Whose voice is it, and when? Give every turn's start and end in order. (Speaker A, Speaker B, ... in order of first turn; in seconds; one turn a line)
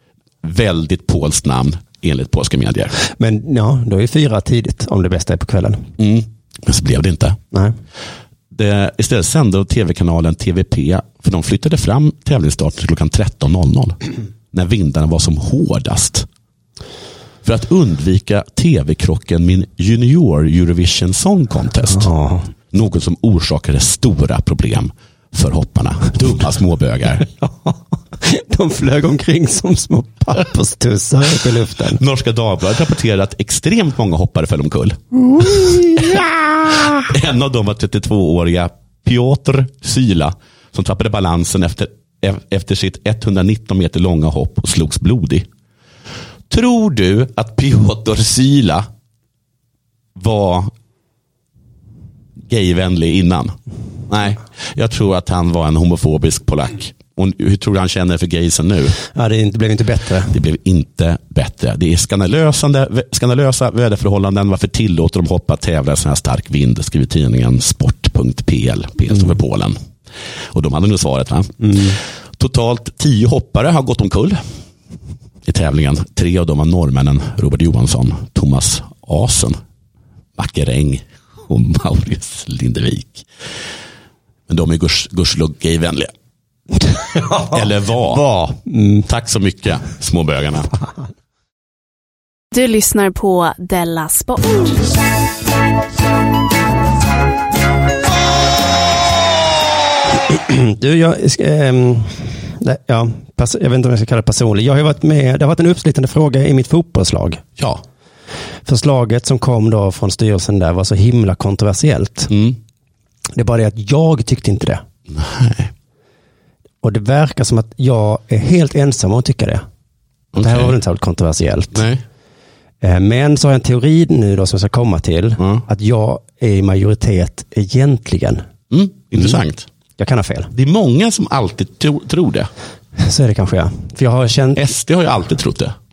Speaker A: 0.4-2.9
Speaker B: 3.0-5.9
Speaker A: 6.0-7.4
Speaker A: 8.5-14.0
Speaker A: 14.5-16.3
Speaker A: 17.4-22.1
Speaker B: 21.9-22.5
Speaker A: 22.7-27.3
Speaker B: 27.4-32.0
Speaker A: 31.8-35.0
Speaker B: 35.2-36.9
Speaker A: 37.0-45.5
Speaker A: 46.5-48.9
Speaker A: 50.1-50.7
Speaker A: 52.5-53.5
Speaker A: 54.1-59.0
Speaker B: 59.1-60.4
Speaker A: 60.3-69.8
Speaker A: 70.5-74.4
Speaker B: 71.6-71.9
Speaker A: 75.4-79.6
Speaker A: 80.3-83.3
Speaker A: 84.5-86.1
Speaker B: 87.1-89.1
Speaker A: 87.4-88.2
Speaker A: 89.0-90.7
Speaker C: 92.5-94.9
Speaker B: 100.2-107.4
Speaker B: 108.7-112.3
Speaker A: 112.3-112.6
Speaker B: 113.3-114.8
Speaker A: 115.1-115.7
Speaker B: 116.8-119.6
Speaker A: 120.3-120.7
Speaker B: 120.3-121.8
Speaker A: 121.7-122.0
Speaker B: 122.8-128.4
Speaker A: 125.4-125.6
Speaker A: 128.7-129.7
Speaker B: 130.0-130.5
Speaker A: 130.5-132.5
Speaker B: 133.0-134.7
Speaker A: 134.6-135.7